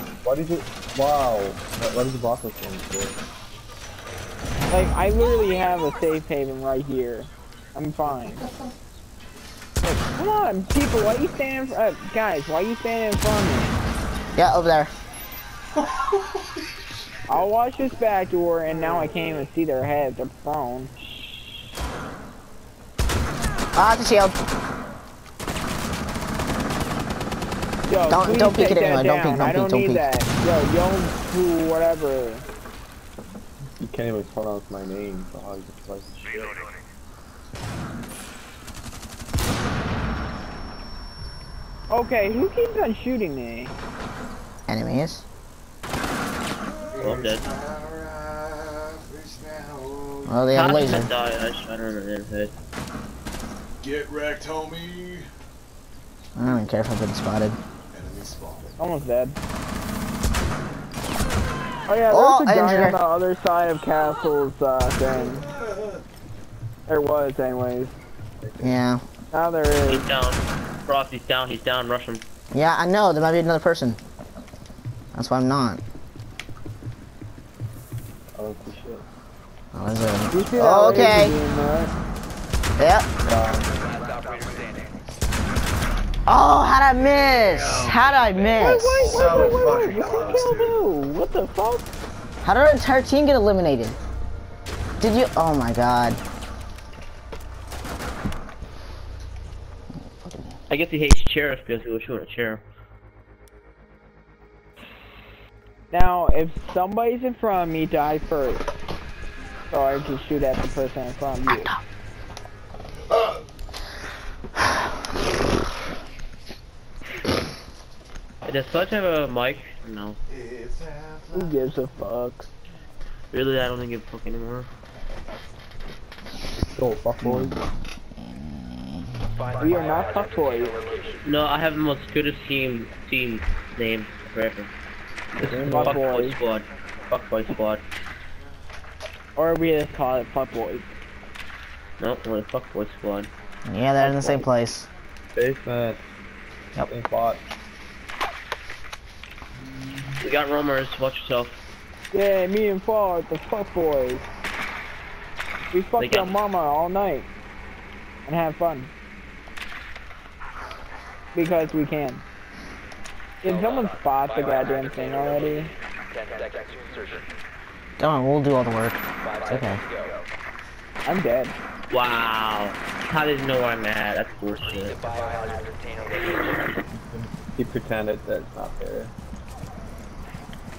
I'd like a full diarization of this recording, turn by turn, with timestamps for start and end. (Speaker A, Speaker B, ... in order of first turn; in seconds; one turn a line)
Speaker A: 0.2-3.2
Speaker B: 4.7-8.4
Speaker B: 9.8-13.8
Speaker C: 14.3-14.9
Speaker B: 17.3-20.9
Speaker C: 23.7-24.3
Speaker B: 27.9-32.4
Speaker C: 28.1-30.1
Speaker A: 33.8-36.5
Speaker D: 36.4-36.7
Speaker B: 41.9-43.7
Speaker C: 44.7-45.2
Speaker E: 46.9-50.4
Speaker F: 47.0-47.5
Speaker C: 50.2-51.1
Speaker F: 50.5-52.5
Speaker E: 53.8-55.3
Speaker C: 56.3-57.6
Speaker E: 57.9-58.8
Speaker B: 58.8-59.4
Speaker B: 61.9-65.5
Speaker C: 62.1-63.0
Speaker E: 65.3-66.0
Speaker B: 66.9-67.9
Speaker A: 68.4-68.8
Speaker C: 68.6-69.0
Speaker B: 69.3-70.1
Speaker F: 69.8-72.2
Speaker C: 72.5-74.0
Speaker C: 75.1-75.8
Speaker A: 78.3-79.0
Speaker C: 79.7-81.4
Speaker B: 80.3-81.9
Speaker C: 82.8-83.1
Speaker A: 83.2-83.8
Speaker D: 83.8-85.0
Speaker C: 86.3-89.3
Speaker B: 88.6-91.9
Speaker E: 88.9-90.8
Speaker C: 92.4-94.0
Speaker C: 95.0-96.2
Speaker C: 100.0-100.6
Speaker F: 100.7-102.6
Speaker B: 105.9-108.7
Speaker B: 109.7-111.7
Speaker C: 111.5-111.8
Speaker F: 118.4-120.2
Speaker E: 120.3-121.5
Speaker B: 121.3-122.5
Speaker F: 123.3-124.7
Speaker A: 126.5-127.6
Speaker C: 127.2-127.5
Speaker C: 128.2-129.3
Speaker D: 129.3-131.2
Speaker B: 129.6-130.8
Speaker F: 131.2-134.7
Speaker F: 135.4-137.8
Speaker A: 135.4-136.0
Speaker B: 135.6-136.4
Speaker B: 139.3-140.9
Speaker F: 142.0-143.3
Speaker C: 143.6-144.9
Speaker A: 145.3-146.0
Speaker A: 146.8-147.4
Speaker F: 150.2-151.6
Speaker B: 152.1-154.3
Speaker B: 155.7-157.3
Speaker F: 156.0-156.3
Speaker B: 158.2-158.9
Speaker B: 161.3-162.2
Speaker B: 163.4-165.7
Speaker D: 163.4-167.2
Speaker C: 168.0-169.8
Speaker D: 169.2-170.2
Speaker B: 171.0-171.5
Speaker F: 171.9-175.0
Speaker D: 174.6-176.6
Speaker A: 177.1-179.1